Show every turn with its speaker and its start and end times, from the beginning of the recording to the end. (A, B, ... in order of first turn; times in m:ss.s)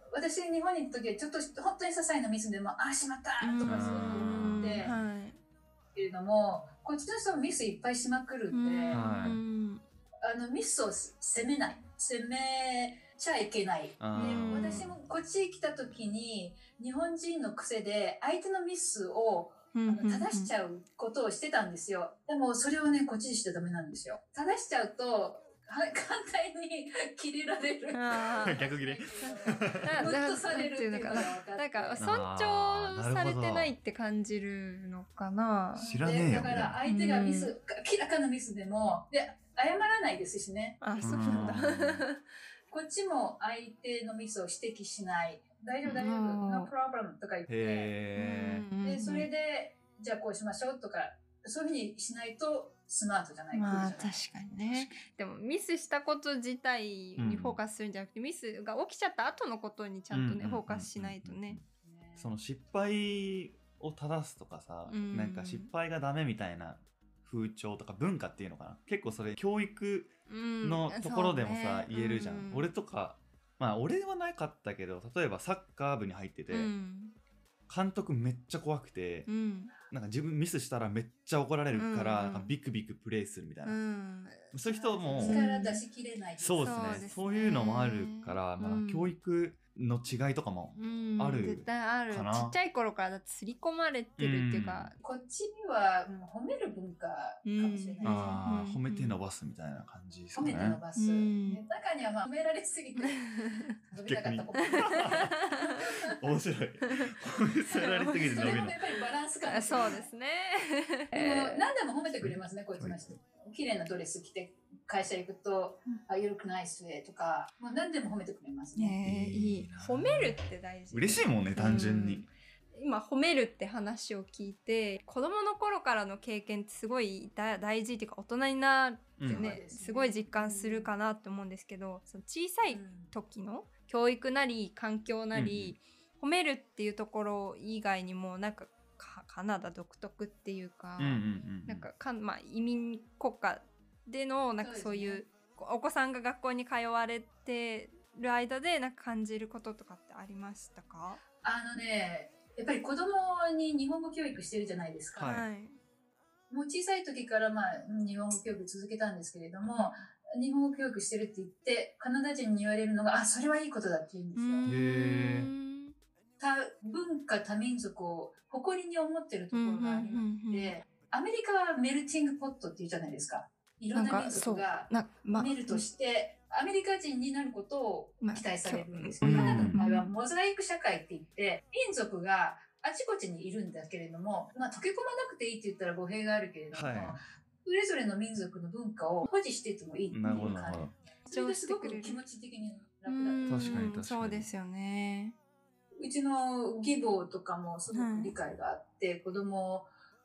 0:00.1-0:04.9 A
0:03.4-0:05.4 B
0:03.7-0:05.0 C
0:05.9-0:09.0 A
0:08.5-0:09.8 B
0:08.9-0:09.4 C
0:10.2-0:32.1 A
0:14.0-0:14.9 C
0:14.2-0:14.9 B
0:19.7-0:20.5 B
0:27.9-0:28.7 B
0:28.4-0:30.2 C
0:29.2-0:35.9 B
0:32.0-0:33.8 C
0:35.8-0:41.6 A
0:35.8-0:36.8 C
0:36.9-0:37.6 B
0:40.8-0:42.2 B
0:41.0-0:42.0 C
0:42.7-0:47.9 A
0:45.8-0:46.7 B
0:47.5-0:48.7 C
0:48.2-0:49.3 B
0:48.8-0:54.2 A
0:53.5-1:01.6 B
0:57.2-0:57.6 C
1:00.1-1:01.6 C
1:01.8-1:02.3 A
1:02.2-1:16.7 C
1:04.9-1:05.7 B
1:10.3-1:12.7 B
1:16.5-1:17.1 B
1:17.7-1:19.3 C
1:19.3-1:19.7 B
1:19.9-1:23.8 C
1:21.7-1:22.6 B
1:23.6-1:24.5 B
1:24.5-1:25.5 C
1:24.6-1:27.1 A
1:25.2-1:25.8 B
1:26.4-1:32.6 C
1:26.6-1:29.1 B
1:30.8-1:35.0 B
1:34.2-1:34.9 C
1:35.0-1:38.5 A
1:37.4-1:39.2 B
1:38.0-1:40.8 C
1:40.4-1:46.2 A
1:41.0-1:41.6 B
1:43.1-1:43.7 B
1:44.1-1:45.4 C
1:44.7-1:45.8 B
1:46.2-1:48.8 C
1:47.7-1:48.9 B
1:48.3-1:50.1 A
1:49.4-1:51.7 B
1:51.1-1:59.0 A
1:52.2-1:53.2 C
1:58.8-2:31.2 B
1:59.0-2:00.4 C
2:00.9-2:02.3 C
2:09.2-2:09.6 C
2:09.2-2:10.9 A
2:12.7-2:13.1 A
2:15.3-2:15.8 C
2:21.0-2:21.9 C
2:24.6-2:25.2 A
2:31.4-2:35.4 A
2:35.2-2:35.5 C
2:35.2-2:35.8 B
2:36.5-2:44.7 A
2:44.4-2:46.0 B
2:44.7-2:45.5 C
2:46.4-3:14.0 A
2:49.5-2:50.7 B
2:53.9-2:55.8 B
2:58.2-3:00.1 B
2:59.2-2:59.8 C
3:06.7-3:07.2 C
3:10.1-3:11.0 C
3:10.3-3:10.5 B
3:11.3-3:12.2 B
3:13.1-3:15.4 B
3:13.5-3:14.5 C
3:16.0-3:19.9 A
3:17.9-3:18.3 B